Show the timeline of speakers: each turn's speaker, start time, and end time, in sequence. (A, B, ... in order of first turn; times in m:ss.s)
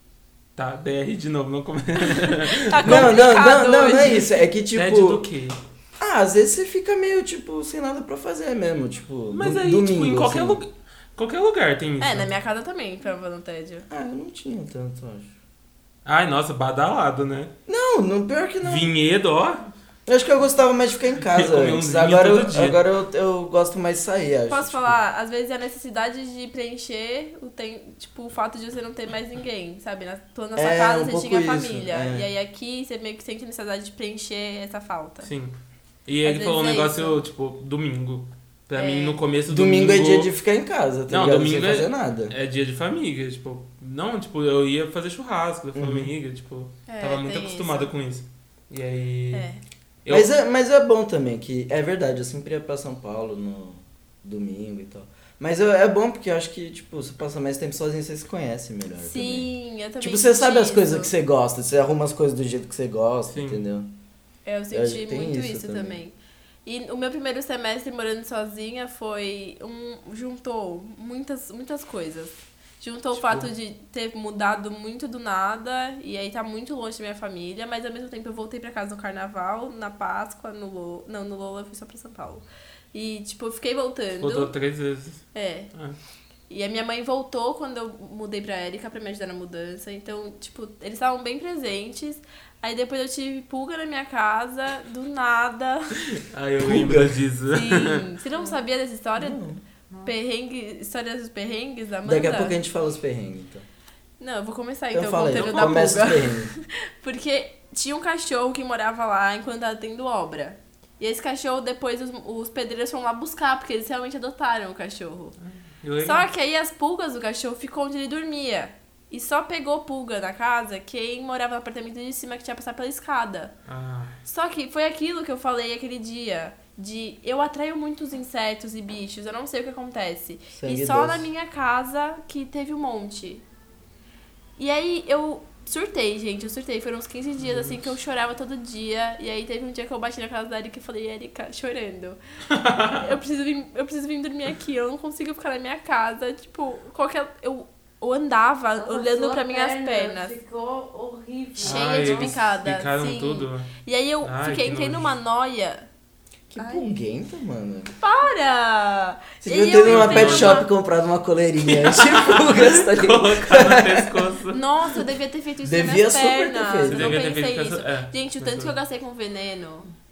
0:00.6-0:03.2 A
0:02.1-0:04.4 B
0:02.8-0:05.2 C
0:04.7-0:05.6 A
0:06.0-0:10.6 C
0:09.3-0:12.3 A
0:12.0-0:13.8 B
0:13.9-0:15.3 C
0:16.0-0:17.5 A
0:17.7-0:18.9 C
0:18.6-0:19.7 A
0:20.1-0:25.0 C
0:21.2-0:22.8 A
0:24.5-0:35.3 B
0:30.6-0:32.3 C
0:35.2-0:35.5 A
0:36.0-0:40.3 A
0:36.2-0:37.2 B
0:38.8-0:39.2 B
0:39.5-0:42.3 C
0:41.1-0:49.4 A
0:45.7-0:46.1 C
0:46.9-0:47.9 B
0:49.3-0:49.6 B
0:50.0-0:50.3 A
0:50.1-0:59.5 C
0:59.0-1:01.1 B
1:00.0-1:03.9 C
1:03.3-1:03.6 A
1:04.4-1:06.1 B
1:04.7-1:06.0 C
1:06.6-1:24.5 B
1:24.2-1:26.0 A
1:25.3-1:25.7 B
1:26.5-1:36.0 B
1:36.0-1:38.1 A
1:36.6-1:37.2 C
1:37.5-1:39.4 B
1:39.2-1:39.6 C
1:40.0-1:42.5 B
1:42.0-1:43.6 C
1:44.2-1:55.3 B
1:44.9-1:46.5 C
1:45.3-1:45.9 A
1:55.4-1:56.2 A
1:56.0-2:03.5 B
2:03.7-2:04.2 A
2:04.2-2:13.4 B
2:10.6-2:11.3 C
2:14.6-2:22.2 B
2:17.4-2:17.8 A
2:22.5-2:23.0 A
2:22.9-2:30.4 B
2:28.8-2:32.3 D
2:31.6-2:35.8 B
2:31.6-2:33.7 A
2:34.2-2:35.1 A
2:36.5-2:37.9 C
2:36.6-2:36.9 B
2:38.0-2:40.7 B
2:39.4-2:44.3 C
2:39.8-2:40.6 A
2:41.6-2:44.6 A
2:44.5-2:49.9 B
2:45.6-2:47.2 C
2:46.8-2:48.7 A